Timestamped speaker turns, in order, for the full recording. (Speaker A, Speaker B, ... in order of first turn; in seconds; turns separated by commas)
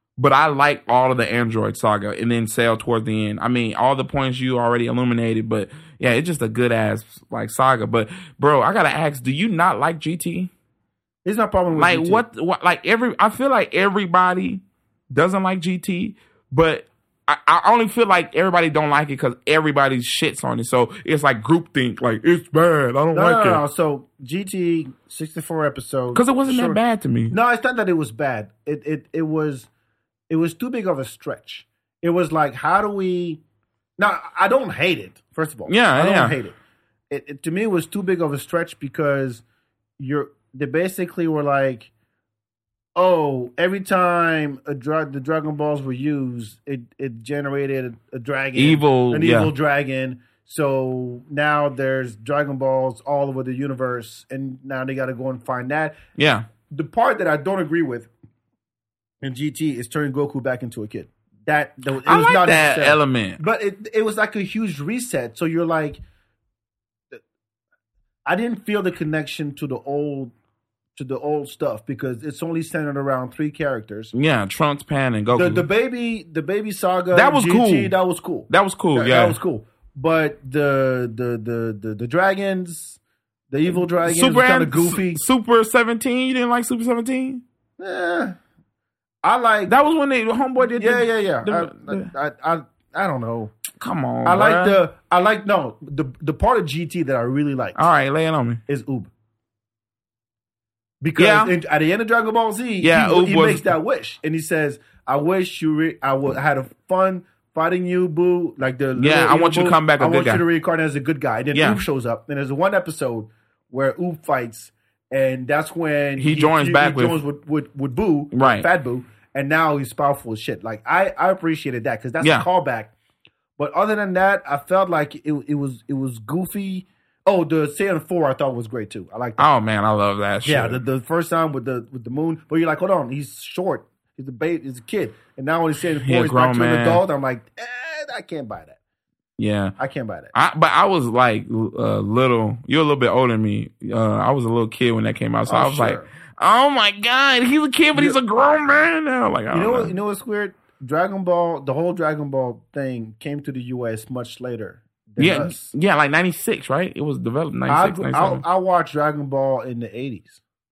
Speaker A: 0.2-10.5, Speaker B: 11.2-12.2, Speaker A: 11.7-23.6, Speaker B: 23.1-26.8, Speaker A: 26.1-27.4, Speaker B: 27.3-29.7, Speaker B: 30.3-33.4, Speaker B: 34.0-36.6, Speaker A: 35.7-36.4, Speaker B: 37.1-39.4, Speaker B: 40.0-41.9, Speaker B: 43.0-56.0, Speaker A: 48.5-49.5, Speaker A: 56.2-56.5, Speaker B: 56.7-58.1, Speaker B: 59.2-66.0, Speaker A: 62.0-63.4, Speaker B: 68.3-70.3, Speaker B: 71.0-74.1, Speaker A: 74.1-75.7, Speaker B: 75.3-83.0, Speaker A: 77.1-78.0, Speaker A: 78.5-79.4, Speaker B: 83.5-85.2, Speaker A: 83.7-87.4, Speaker B: 87.8-88.4, Speaker B: 89.2-89.7, Speaker A: 89.7-92.1, Speaker B: 90.8-93.5, Speaker A: 93.8-94.8, Speaker B: 94.2-97.8, Speaker A: 97.8-98.6, Speaker B: 98.7-99.1, Speaker B: 101.0-122.9, Speaker A: 101.2-101.5, Speaker A: 102.8-103.7, Speaker A: 109.0-110.5, Speaker A: 111.5-111.8, Speaker A: 116.2-117.2, Speaker A: 118.3-118.7, Speaker A: 122.2-122.5, Speaker B: 123.6-129.5, Speaker A: 129.4-130.8, Speaker B: 130.4-138.8, Speaker A: 136.0-137.0, Speaker A: 139.4-139.8, Speaker B: 139.8-140.3, Speaker A: 140.3-149.9, Speaker B: 145.5-146.1, Speaker B: 149.5-155.7, Speaker A: 155.2-158.4, Speaker B: 157.7-160.4